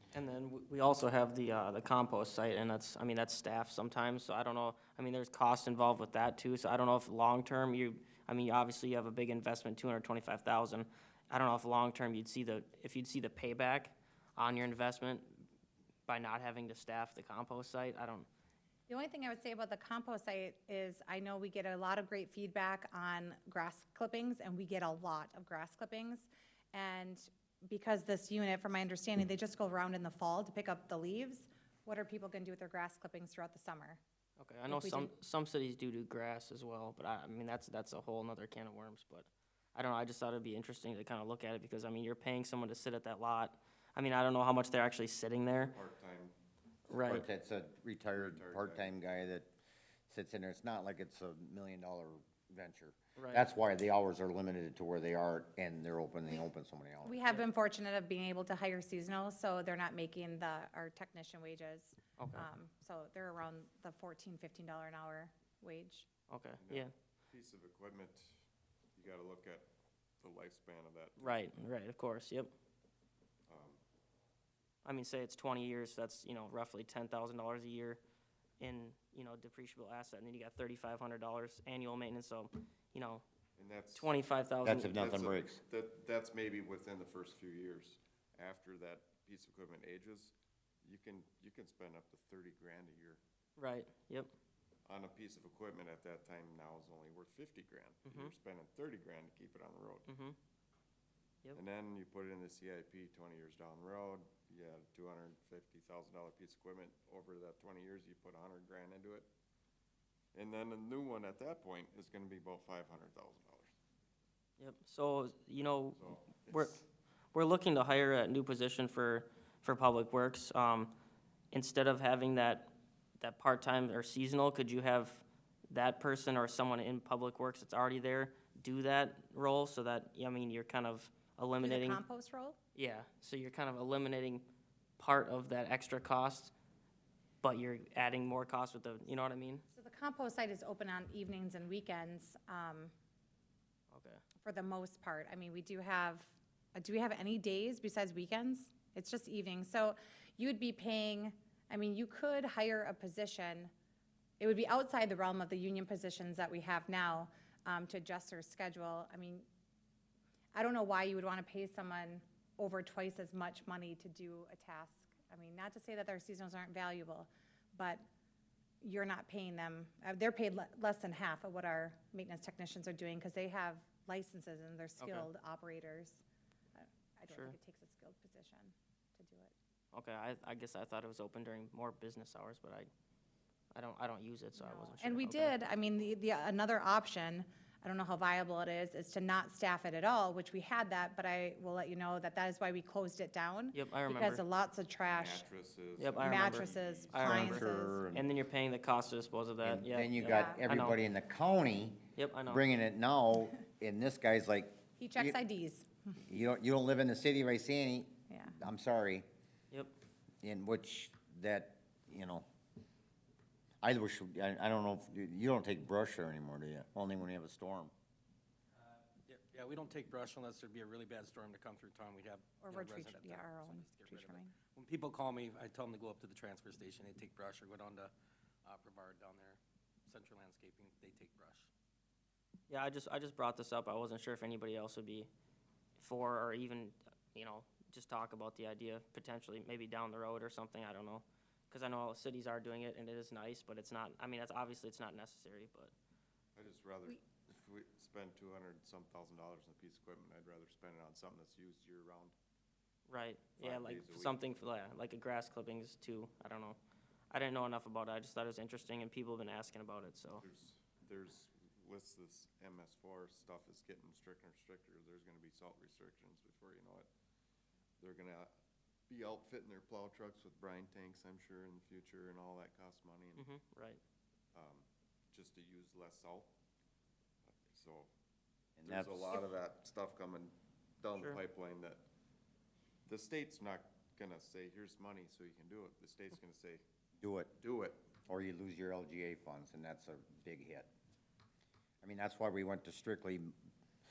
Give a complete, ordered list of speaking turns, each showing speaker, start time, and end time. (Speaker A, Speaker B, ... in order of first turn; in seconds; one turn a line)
Speaker A: 0.1-15.5
Speaker A: 16.1-18.3
Speaker B: 18.9-34.0
Speaker A: 34.4-45.8
Speaker B: 34.7-35.1
Speaker C: 45.7-46.3
Speaker A: 46.9-47.2
Speaker D: 47.1-49.5
Speaker C: 48.1-49.0
Speaker D: 50.1-57.2
Speaker A: 53.2-53.5
Speaker B: 57.0-66.1
Speaker A: 62.2-62.5
Speaker A: 66.3-66.9
Speaker C: 66.6-68.4
Speaker C: 69.0-71.3
Speaker A: 71.2-72.5
Speaker C: 73.5-73.8
Speaker A: 74.8-78.0
Speaker A: 78.6-83.2
Speaker C: 83.6-84.1
Speaker A: 84.0-85.0
Speaker D: 84.7-85.6
Speaker C: 84.7-90.3
Speaker C: 90.8-93.2
Speaker A: 93.6-94.3
Speaker C: 94.9-100.1
Speaker A: 98.0-98.3
Speaker A: 100.1-100.4
Speaker C: 101.5-109.3
Speaker C: 110.3-113.7
Speaker A: 114.6-116.8
Speaker C: 116.0-116.7
Speaker A: 117.3-121.0
Speaker A: 121.5-132.0
Speaker B: 131.6-132.6
Speaker A: 132.8-134.5
Speaker A: 135.0-136.5
Speaker A: 137.4-139.7
Speaker B: 139.7-142.9
Speaker A: 143.9-144.2
Speaker B: 144.4-153.7
Speaker B: 154.4-159.5
Speaker B: 160.5-168.0
Speaker B: 168.8-176.2
Speaker A: 175.0-175.3
Speaker B: 176.8-179.5
Speaker A: 177.3-177.6
Speaker A: 179.9-182.9
Speaker A: 183.7-185.6
Speaker B: 184.6-195.5
Speaker A: 193.7-194.4
Speaker C: 195.1-198.3
Speaker A: 196.0-201.0
Speaker B: 196.2-198.0
Speaker D: 199.6-205.4
Speaker B: 200.3-200.7
Speaker A: 202.2-202.7
Speaker B: 205.0-205.9
Speaker D: 206.2-209.3
Speaker D: 210.4-212.5
Speaker D: 213.8-217.9
Speaker E: 218.8-228.1
Speaker B: 222.6-224.5
Speaker E: 228.7-231.7
Speaker A: 232.7-235.3
Speaker A: 236.0-245.9
Speaker C: 246.6-252.3
Speaker A: 253.1-256.8
Speaker C: 253.6-254.4
Speaker A: 257.3-260.4
Speaker C: 260.4-267.1
Speaker C: 268.0-268.5
Speaker C: 269.1-273.4
Speaker A: 273.4-274.0
Speaker C: 274.5-276.5
Speaker C: 277.5-278.1
Speaker D: 278.8-279.4
Speaker C: 278.8-282.0
Speaker C: 283.1-286.8
Speaker D: 287.2-287.5
Speaker C: 287.6-288.0
Speaker D: 288.3-290.9
Speaker D: 292.0-293.5